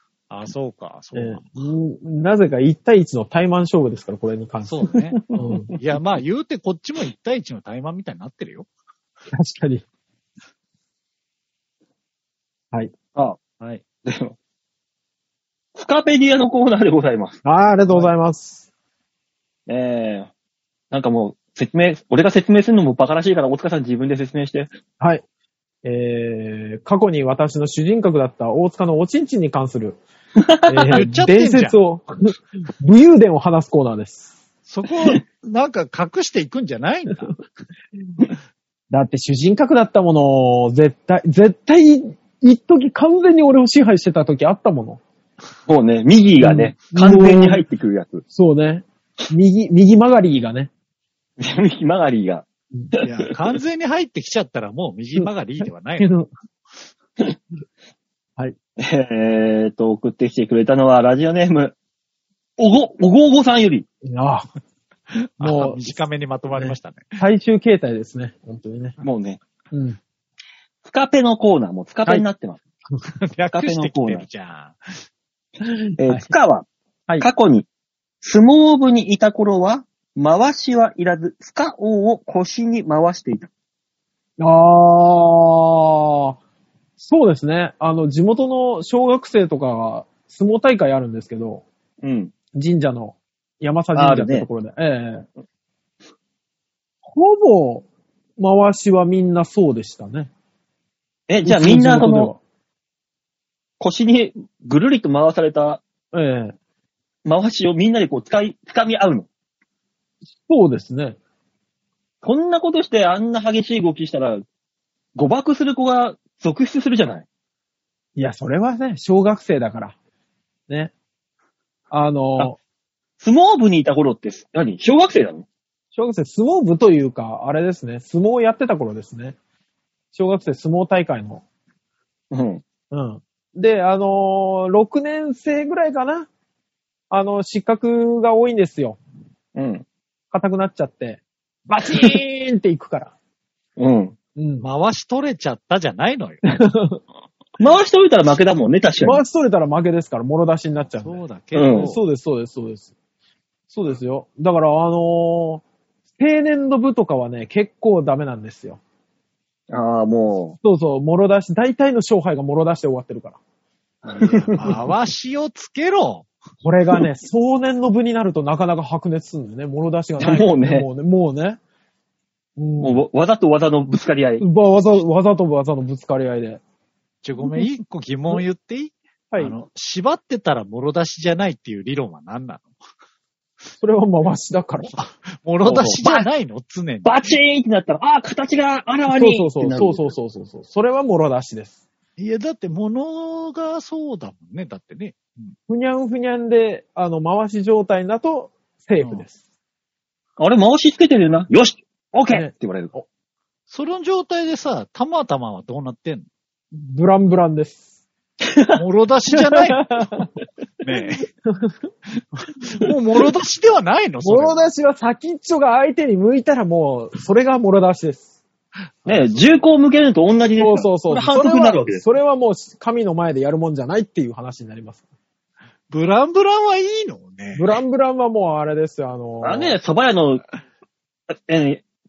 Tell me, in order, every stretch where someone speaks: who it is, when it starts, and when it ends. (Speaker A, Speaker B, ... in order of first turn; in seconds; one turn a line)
Speaker A: 0.3-1.6
Speaker B: 1.1-5.7
Speaker A: 4.6-8.7
Speaker C: 4.9-5.7
Speaker B: 9.3-9.8
Speaker C: 13.1-13.4
Speaker C: 14.0-14.3
Speaker C: 15.7-17.4
Speaker B: 17.4-18.6
Speaker A: 17.9-18.1
Speaker C: 19.7-20.3
Speaker C: 20.9-24.7
Speaker B: 25.8-30.0
Speaker C: 30.4-31.0
Speaker B: 30.7-34.3
Speaker A: 30.9-31.8
Speaker A: 34.7-37.4
Speaker B: 38.9-45.0
Speaker C: 45.7-48.2
Speaker B: 46.4-47.6
Speaker B: 48.3-50.7
Speaker C: 51.4-53.3
Speaker A: 53.0-56.1
Speaker B: 55.1-56.3
Speaker C: 58.8-61.8
Speaker C: 62.6-63.9
Speaker B: 64.0-64.5
Speaker A: 65.4-67.2
Speaker B: 65.4-66.0
Speaker B: 66.5-69.0
Speaker C: 69.0-69.4
Speaker B: 69.7-70.0
Speaker C: 70.8-72.6
Speaker A: 73.2-74.9
Speaker C: 73.5-74.2
Speaker B: 75.6-76.3
Speaker C: 76.0-76.7
Speaker C: 77.2-77.7
Speaker C: 78.2-83.5
Speaker B: 84.4-86.4
Speaker B: 87.0-91.6
Speaker C: 92.0-92.3
Speaker B: 92.5-95.3
Speaker C: 93.9-94.5
Speaker B: 97.0-97.8
Speaker B: 98.4-100.3
Speaker C: 101.3-102.3
Speaker B: 101.4-102.4
Speaker C: 103.8-105.8
Speaker B: 106.1-106.5
Speaker C: 107.2-109.3
Speaker B: 110.4-111.2
Speaker C: 112.2-114.4
Speaker C: 115.2-117.2
Speaker B: 118.2-120.0
Speaker B: 121.9-122.6
Speaker C: 123.2-125.4
Speaker B: 125.9-129.3
Speaker B: 130.1-131.4
Speaker C: 132.3-132.6
Speaker B: 132.9-136.3
Speaker B: 137.1-139.0
Speaker C: 139.5-139.8
Speaker B: 140.3-143.1
Speaker C: 141.8-142.2
Speaker C: 143.8-144.2
Speaker B: 144.3-144.7
Speaker A: 144.6-146.4
Speaker B: 146.5-147.0
Speaker C: 147.6-149.2
Speaker B: 149.0-152.9
Speaker A: 150.8-152.0
Speaker C: 151.5-151.9
Speaker B: 153.7-155.6
Speaker B: 156.2-158.8
Speaker C: 159.7-160.6
Speaker B: 160.6-163.4
Speaker C: 164.0-164.7
Speaker A: 164.2-166.3
Speaker B: 166.6-171.6
Speaker C: 170.2-170.8
Speaker B: 172.6-173.0
Speaker C: 172.8-174.4
Speaker B: 174.4-176.6
Speaker A: 177.2-182.7
Speaker B: 183.8-184.9
Speaker A: 184.9-187.4
Speaker B: 185.6-186.0
Speaker C: 185.8-186.3
Speaker C: 187.0-190.1
Speaker B: 189.1-191.8
Speaker A: 192.2-195.5
Speaker B: 195.7-199.4
Speaker C: 200.4-202.9
Speaker B: 202.3-203.1
Speaker A: 203.7-206.2
Speaker B: 206.7-207.8
Speaker C: 208.4-208.8
Speaker A: 208.7-209.8
Speaker B: 209.3-210.3
Speaker A: 210.8-211.3
Speaker B: 211.4-211.7
Speaker A: 212.6-214.7
Speaker B: 214.2-218.3
Speaker A: 219.1-219.6
Speaker C: 219.1-222.0
Speaker B: 220.6-225.0
Speaker A: 225.9-227.8
Speaker B: 227.5-229.8
Speaker C: 229.4-230.4
Speaker C: 231.5-231.8